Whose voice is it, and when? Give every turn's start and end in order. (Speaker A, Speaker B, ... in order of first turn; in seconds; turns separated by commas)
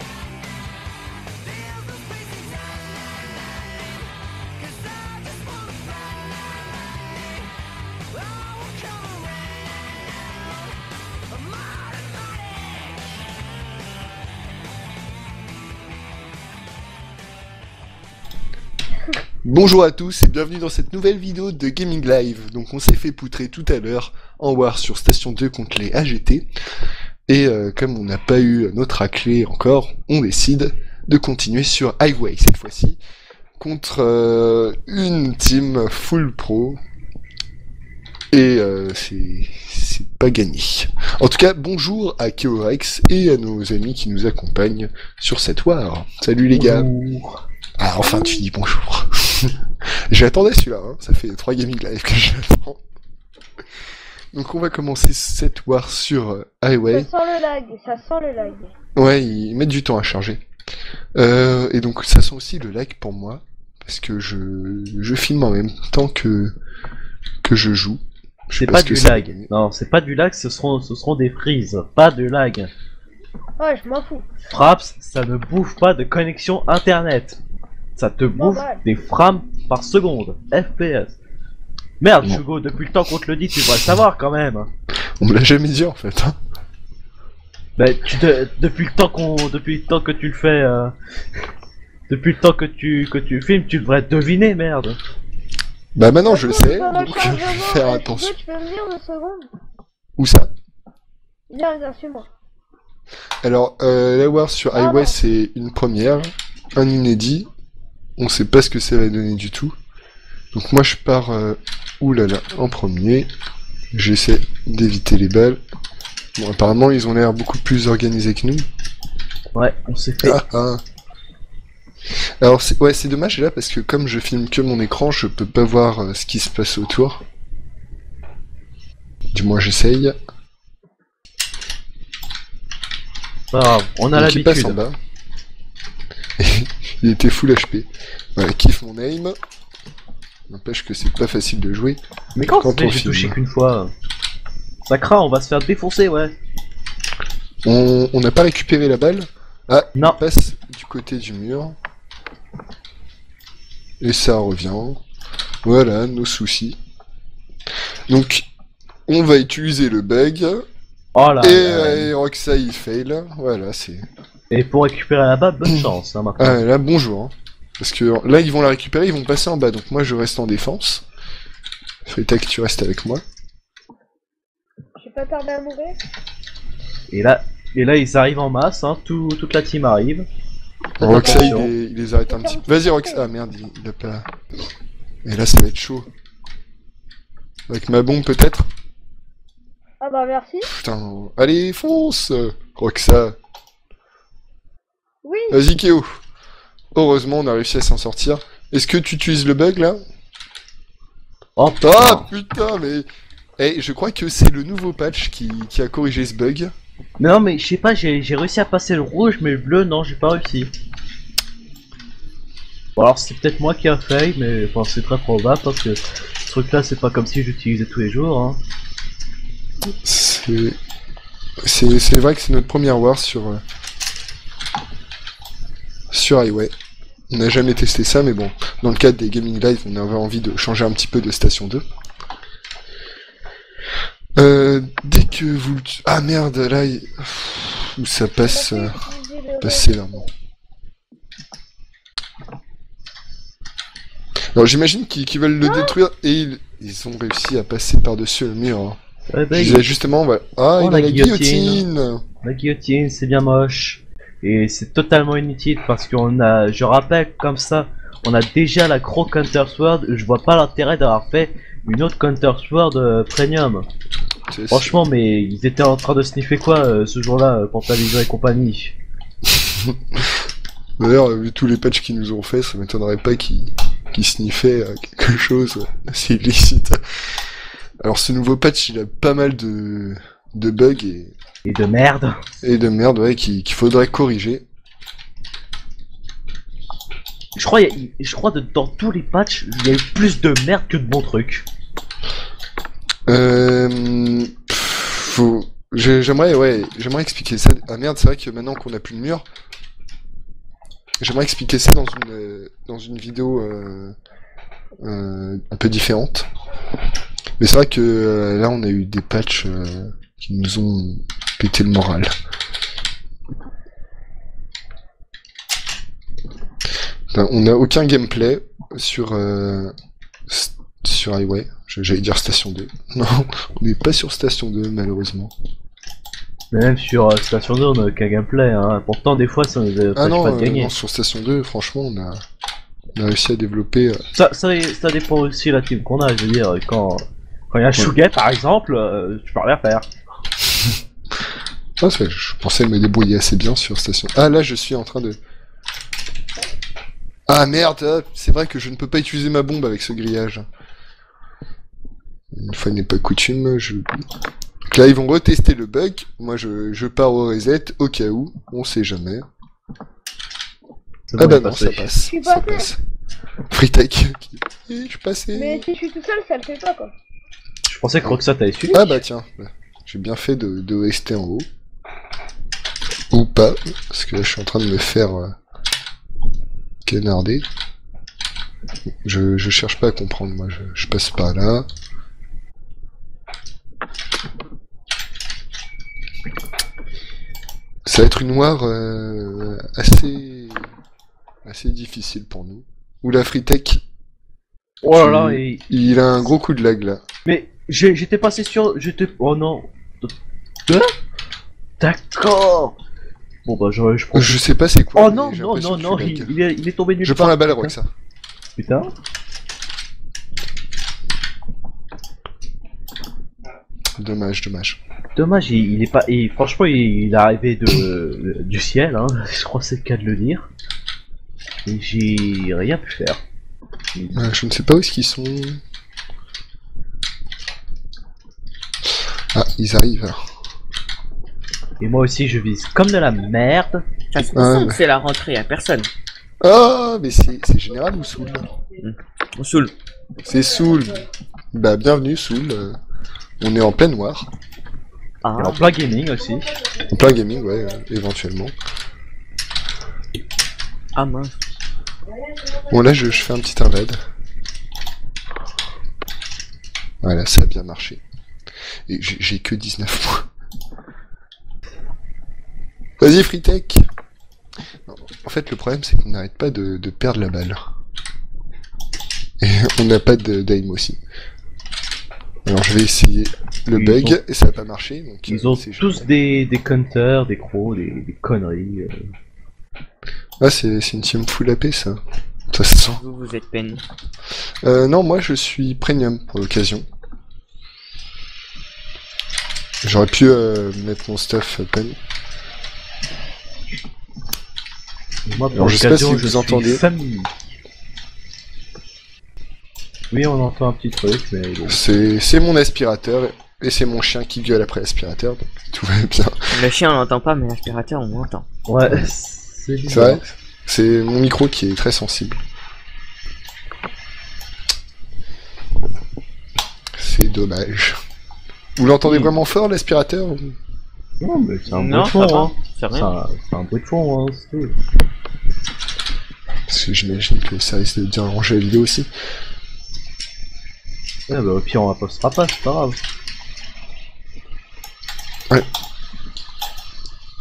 Speaker A: 1.4-4.1, Speaker A: 4.6-7.4, Speaker A: 8.2-10.6, Speaker A: 11.3-13.0, Speaker B: 19.4-26.5, Speaker B: 27.3-33.0, Speaker B: 33.6-36.8, Speaker B: 38.3-46.9, Speaker C: 46.5-47.4, Speaker B: 47.8-49.5, Speaker D: 48.1-48.3, Speaker B: 50.1-52.8, Speaker B: 54.3-57.1, Speaker D: 56.9-58.7, Speaker B: 59.0-60.4, Speaker B: 61.2-66.5, Speaker B: 67.4-69.5, Speaker C: 68.6-72.7, Speaker D: 73.6-74.3, Speaker C: 74.5-77.4, Speaker C: 78.0-81.2, Speaker D: 78.3-78.8, Speaker C: 82.0-84.7, Speaker B: 85.2-86.4, Speaker C: 87.8-90.9, Speaker C: 92.1-95.0, Speaker B: 96.0-98.3, Speaker D: 96.2-99.5, Speaker B: 100.2-100.5, Speaker D: 101.5-102.3, Speaker B: 103.4-107.5, Speaker D: 104.8-105.2, Speaker B: 108.2-109.8, Speaker B: 110.5-113.3, Speaker B: 113.9-115.6, Speaker B: 116.4-118.7, Speaker C: 119.5-120.4, Speaker B: 120.2-120.8, Speaker B: 122.4-127.2, Speaker B: 129.3-130.2, Speaker C: 133.5-134.8, Speaker B: 134.2-135.0, Speaker B: 136.4-139.3, Speaker B: 140.5-143.4, Speaker C: 142.3-143.9, Speaker C: 144.8-146.3, Speaker B: 147.7-151.8, Speaker B: 154.0-155.0, Speaker B: 155.6-156.8, Speaker B: 158.1-158.5, Speaker B: 159.1-160.6, Speaker C: 161.2-162.1, Speaker B: 161.4-164.0, Speaker C: 164.5-166.6, Speaker B: 166.4-171.0, Speaker B: 172.1-173.2, Speaker D: 175.0-176.0, Speaker C: 177.1-180.3, Speaker B: 181.0-184.3, Speaker C: 181.0-181.7, Speaker D: 181.1-181.6, Speaker D: 182.3-183.2, Speaker B: 185.2-186.1, Speaker B: 187.7-188.7, Speaker D: 190.0-190.7, Speaker B: 190.6-193.4, Speaker D: 195.2-195.6, Speaker B: 195.5-196.1, Speaker B: 196.9-200.0, Speaker C: 201.6-202.3, Speaker B: 201.8-203.1, Speaker B: 203.6-206.7, Speaker C: 207.2-210.7, Speaker C: 213.0-218.6, Speaker B: 220.0-220.8, Speaker B: 221.6-223.6, Speaker B: 226.1-226.7, Speaker B: 227.3-231.8, Speaker B: 234.4-239.0, Speaker D: 238.5-240.1, Speaker B: 239.6-240.3, Speaker B: 244.6-249.0, Speaker D: 245.7-245.9, Speaker C: 249.3-249.9, Speaker B: 249.5-252.2, Speaker C: 250.8-251.9, Speaker C: 252.4-263.9, Speaker B: 264.5-265.0, Speaker C: 264.7-269.0, Speaker B: 269.5-270.2, Speaker B: 271.0-277.0, Speaker B: 278.0-281.3, Speaker C: 281.6-282.4, Speaker B: 282.6-284.6, Speaker C: 287.6-291.7, Speaker B: 293.3-299.4, Speaker B: 301.2-304.1, Speaker B: 305.0-306.5, Speaker B: 307.6-312.3, Speaker B: 317.3-319.9, Speaker B: 320.5-325.5, Speaker C: 326.7-330.9, Speaker B: 330.1-332.4, Speaker B: 333.2-334.2, Speaker C: 334.3-340.1, Speaker B: 342.0-345.4, Speaker B: 347.5-350.6, Speaker B: 352.5-354.2, Speaker B: 354.9-359.4, Speaker C: 361.3-362.1, Speaker B: 361.4-363.0, Speaker D: 362.3-362.9, Speaker B: 363.7-365.9, Speaker D: 365.5-367.1, Speaker C: 367.9-369.2, Speaker B: 368.2-371.7, Speaker B: 373.3-375.5, Speaker B: 377.1-377.7, Speaker B: 379.2-381.9, Speaker B: 388.1-390.9, Speaker B: 391.6-394.0, Speaker C: 395.0-395.8, Speaker B: 395.1-397.2, Speaker C: 397.4-400.3, Speaker C: 400.9-401.1, Speaker C: 402.0-403.0, Speaker C: 403.6-404.6, Speaker B: 404.3-406.6, Speaker C: 405.1-408.0, Speaker B: 407.2-408.1, Speaker C: 408.8-409.1, Speaker B: 414.2-415.0, Speaker C: 415.4-420.7, Speaker C: 421.9-423.4, Speaker B: 424.3-425.8, Speaker B: 429.5-430.4, Speaker C: 432.0-434.0, Speaker A: 434.3-436.1, Speaker B: 434.5-435.0, Speaker B: 436.6-438.7, Speaker A: 439.0-439.9, Speaker B: 440.4-443.0, Speaker B: 443.6-444.5, Speaker A: 445.4-445.9, Speaker C: 445.6-446.8, Speaker B: 447.0-448.7, Speaker A: 451.1-451.6, Speaker B: 452.9-454.2, Speaker B: 457.2-458.2, Speaker B: 459.1-460.5, Speaker B: 463.2-464.1, Speaker B: 465.1-467.8, Speaker B: 469.6-471.2, Speaker B: 472.7-476.3, Speaker C: 473.9-474.4, Speaker C: 475.5-479.2, Speaker B: 480.6-483.2, Speaker A: 483.2-484.0, Speaker B: 484.8-487.1, Speaker B: 490.0-492.2, Speaker C: 495.5-497.5, Speaker B: 495.7-497.0, Speaker C: 500.3-502.0, Speaker B: 501.9-506.7, Speaker A: 506.7-508.7, Speaker C: 508.9-510.4, Speaker B: 510.1-512.6, Speaker B: 517.1-518.2, Speaker B: 519.0-520.8, Speaker C: 519.2-519.5, Speaker C: 521.4-525.0, Speaker A: 521.9-523.3, Speaker B: 526.9-529.3, Speaker C: 531.5-533.2